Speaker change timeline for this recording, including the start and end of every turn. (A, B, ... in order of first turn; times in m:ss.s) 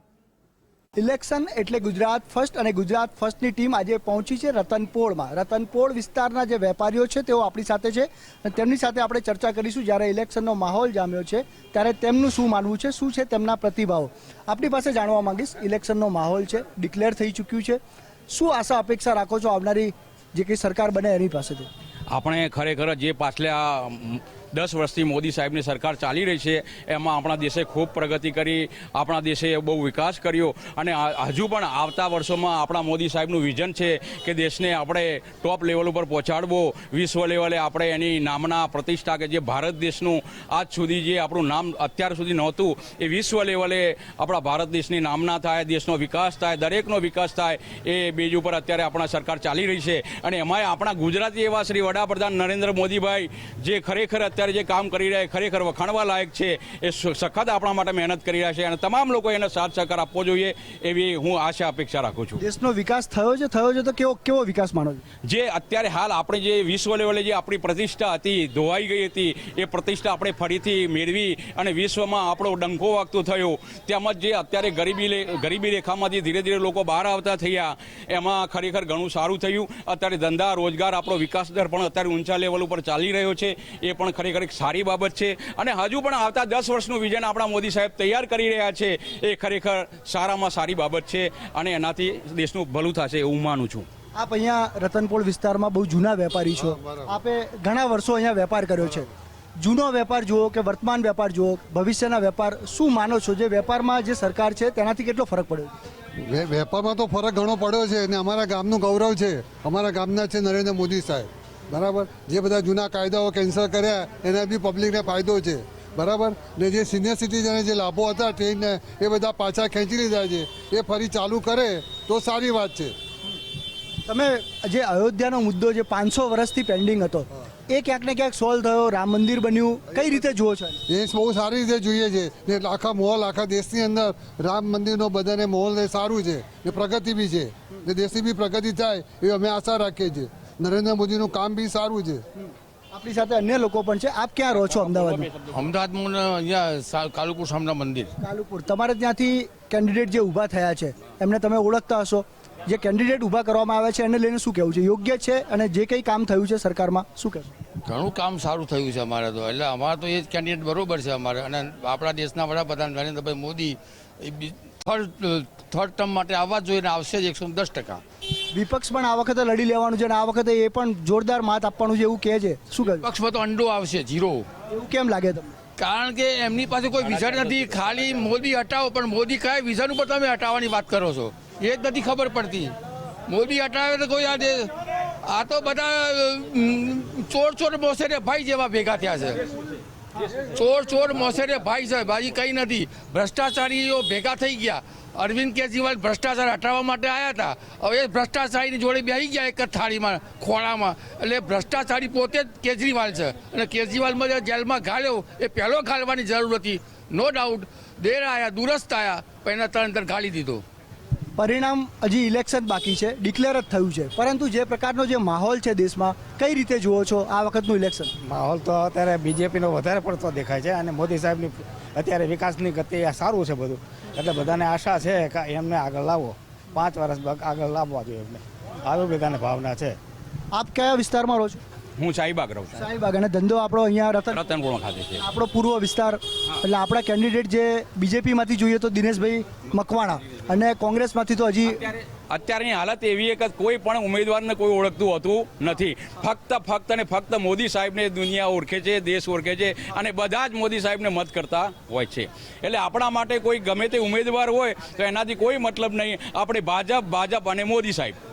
0:01.0-0:21.7 A
0:22.1-1:02.4 B
1:02.4-1:05.0 A
1:05.2-1:33.9 B
1:34.2-1:45.7 A
1:36.6-1:37.1 C
1:46.2-2:02.9 C
2:04.1-2:10.8 A
2:10.9-2:22.2 C
2:22.9-2:25.3 A
2:24.6-2:25.6 B
2:25.5-2:28.1 D
2:28.2-2:37.5 A
2:37.8-2:48.0 D
2:48.5-2:53.0 A
2:52.8-2:54.4 D
2:54.7-2:55.5 A
2:55.8-3:02.7 D
2:57.1-2:58.1 B
3:03.3-3:04.7 D
3:05.2-3:09.4 D
3:10.2-3:30.6 D
3:31.4-3:38.1 A
3:38.2-3:50.0 E
3:50.5-3:51.6 A
3:52.0-3:52.9 B
3:52.8-3:54.4 A
3:54.3-3:55.2 B
3:55.2-4:01.8 A
4:01.7-4:18.2 B